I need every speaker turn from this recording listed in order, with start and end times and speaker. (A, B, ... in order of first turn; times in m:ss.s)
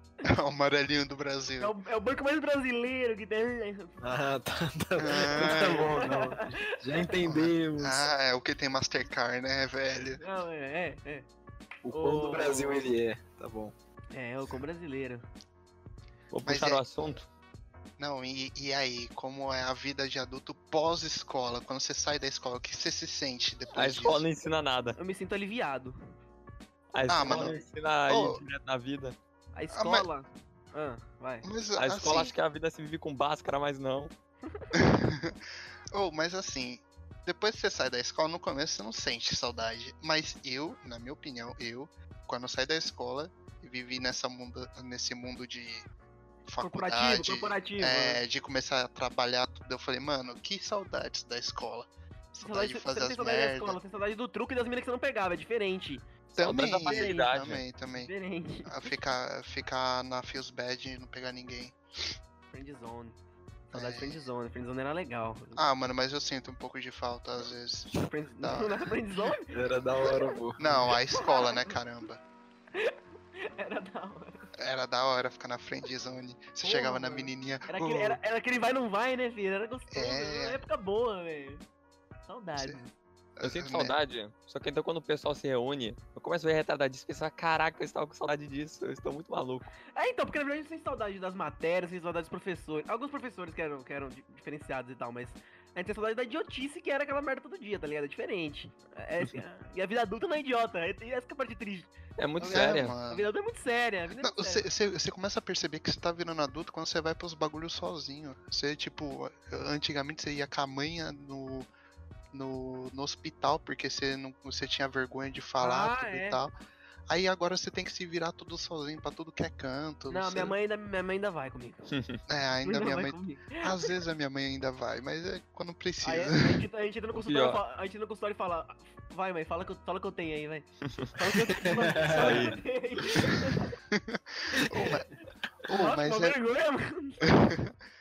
0:00.3-0:01.7 A
0:01.6-0:04.0 B
0:04.0-0:08.1 C
0:05.0-0:05.9 A
0:05.4-0:06.4 B
0:07.3-0:10.2 A
0:10.2-0:11.3 B
0:11.8-0:13.7 C
0:11.9-0:12.8 B
0:14.1-0:15.3 B
0:16.3-0:17.3 D
0:16.4-0:16.8 A
0:18.0-0:24.2 A
0:23.8-0:25.0 D
0:25.0-0:26.0 B
0:26.9-0:29.2 D
0:27.1-0:27.5 A
0:28.1-0:28.4 A
0:29.6-0:31.5 B
0:29.7-0:30.1 A
0:31.4-0:32.4 A
0:31.8-0:34.1 D
0:34.7-0:35.4 A
0:35.9-0:45.9 A
0:46.5-0:53.8 A
0:46.6-0:48.2 B
0:52.4-0:56.0 B
0:56.3-0:57.6 D
0:56.4-0:58.1 A
0:56.8-0:57.3 B
0:57.9-0:59.0 B
0:58.6-1:01.8 A
1:02.5-1:03.2 B
1:03.7-1:04.3 A
1:03.7-1:05.6 B
1:05.6-1:08.9 A
1:07.9-1:10.3 B
1:09.5-1:11.0 C
1:10.6-1:12.2 A
1:11.1-1:11.8 B
1:12.8-1:14.5 B
1:14.6-1:18.2 A
1:16.6-1:21.6 B
1:19.9-1:20.6 A
1:22.3-1:22.9 B
1:23.4-1:24.0 A
1:23.4-1:29.7 D
1:29.9-1:41.9 B
1:42.2-1:43.0 D
1:42.4-1:43.3 A
1:43.1-1:44.7 B
1:44.2-1:51.7 A
1:52.3-1:56.6 A
1:55.6-1:56.4 B
1:57.1-2:00.5 A
2:00.1-2:01.9 B
2:01.9-2:02.2 D
2:02.3-2:06.6 A
2:02.6-2:03.8 B
2:06.0-2:13.7 B
2:07.1-2:07.6 D
2:10.8-2:11.1 D
2:11.5-2:12.5 C
2:12.0-2:12.6 D
2:13.9-2:15.1 A
2:14.5-2:14.9 B
2:15.6-2:16.4 A
2:15.6-2:17.4 B
2:17.2-2:17.7 A